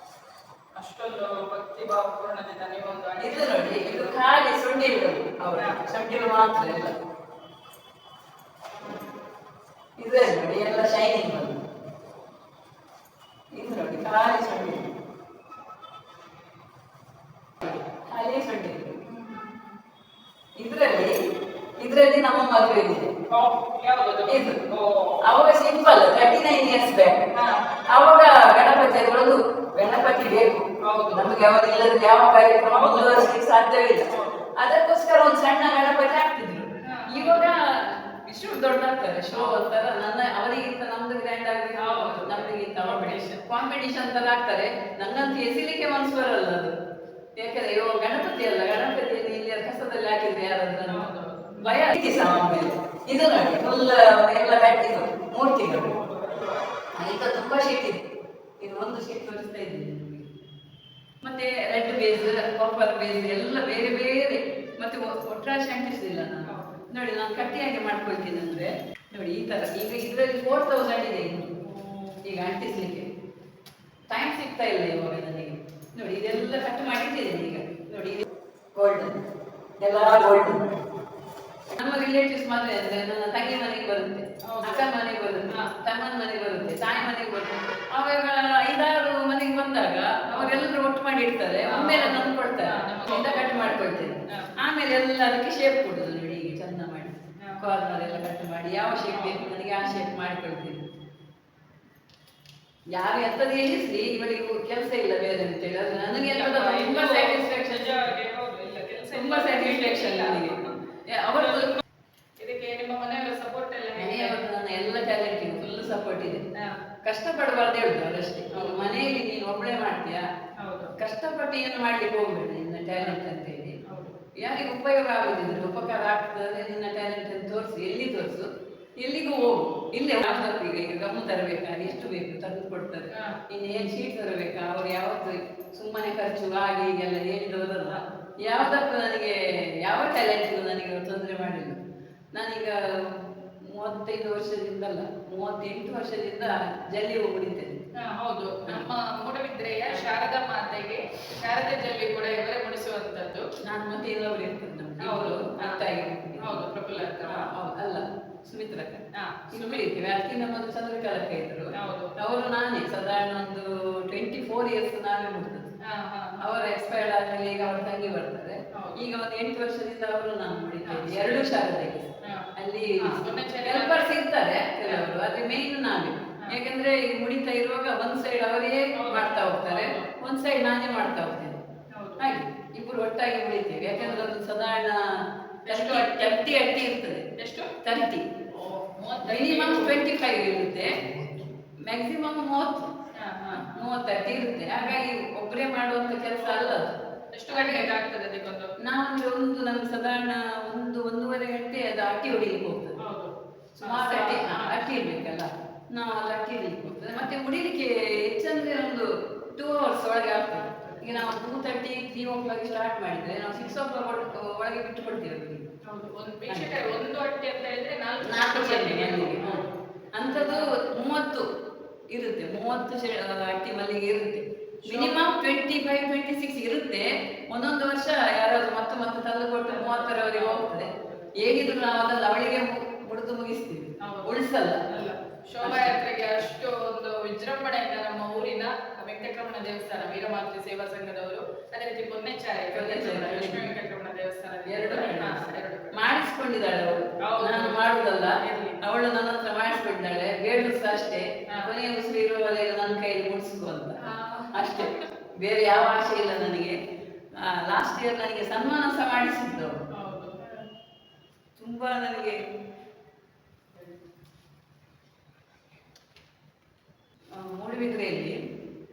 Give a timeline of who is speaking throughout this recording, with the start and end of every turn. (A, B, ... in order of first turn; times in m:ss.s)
0:00.8-0:04.2 A
0:03.2-0:06.9 B
0:08.8-0:09.0 A
0:10.0-0:11.6 B
0:13.5-0:14.9 B
0:17.6-0:19.0 B
0:19.0-0:19.8 A
0:20.6-0:21.1 B
0:21.8-0:23.1 B
0:23.3-0:25.2 A
0:24.3-0:24.6 B
0:25.2-0:27.2 B
0:27.3-0:27.8 A
0:27.9-0:46.7 B
0:30.8-0:31.4 A
0:32.6-0:33.3 A
0:34.1-0:34.4 A
0:36.8-0:37.5 A
0:39.3-0:39.7 A
0:41.7-0:43.4 A
0:47.4-0:51.1 B
0:50.9-0:51.8 A
0:51.6-0:55.9 B
0:55.7-0:56.6 A
0:56.9-0:58.0 B
0:58.6-1:00.3 B
1:01.2-1:11.5 B
1:06.4-1:06.8 A
1:11.6-1:12.2 A
1:12.2-1:13.0 B
1:14.1-1:19.2 B
1:19.8-1:20.7 B
1:21.7-1:40.8 B
1:24.4-1:24.8 A
1:30.3-1:30.6 A
1:31.6-1:34.5 A
1:37.4-1:37.9 A
1:39.1-1:39.4 A
1:42.9-1:48.1 B
1:46.3-1:50.8 A
1:49.1-1:51.8 B
1:51.4-1:51.8 A
1:52.4-1:54.4 A
1:54.0-1:56.4 B
1:57.0-2:00.2 B
1:58.5-1:59.0 A
2:00.6-2:00.9 A
2:01.0-2:03.8 B
2:03.8-2:04.2 A
2:04.4-2:08.5 B
2:09.0-2:21.8 B
2:13.1-2:13.4 A
2:17.9-2:18.1 A
2:22.3-2:27.8 B
2:28.0-2:33.5 A
2:33.6-2:36.6 B
2:35.0-2:35.8 A
2:36.4-2:37.5 A
2:37.2-2:45.7 B
2:39.1-2:39.8 A
2:41.8-2:42.1 A
2:45.8-2:47.0 A
2:46.4-3:01.6 B
2:48.7-2:49.1 A
2:50.8-2:51.5 A
2:52.2-2:54.1 A
2:59.0-3:00.1 A
3:01.9-3:02.3 A
3:02.2-3:05.0 B
3:04.0-3:04.3 A
3:05.6-3:06.4 A
3:05.7-3:07.2 B
3:07.4-3:07.7 A
3:07.8-3:08.2 B
3:08.5-3:10.0 A
3:09.2-3:12.9 B
3:13.1-3:13.8 A
3:13.5-3:16.9 B
3:14.7-3:15.0 A
3:16.4-3:16.8 A
3:17.3-3:18.7 A
3:17.5-3:17.9 B
3:18.8-3:23.0 B
3:23.0-3:24.8 A
3:23.8-3:35.6 B
3:30.7-3:31.2 A
3:35.8-3:40.7 A
3:36.5-3:36.9 B
3:38.2-3:41.5 B
3:42.1-3:54.8 B
3:44.8-3:45.2 A
3:49.7-3:51.4 A
3:54.0-4:06.0 A
3:55.6-3:56.0 B
4:02.7-4:03.7 B
4:04.6-4:14.0 B
4:07.2-4:08.8 A
4:14.0-4:15.1 A
4:14.5-4:16.8 B
4:17.3-4:19.8 B
4:19.9-4:20.6 A
4:21.6-4:22.4 B
4:27.3-4:28.4 B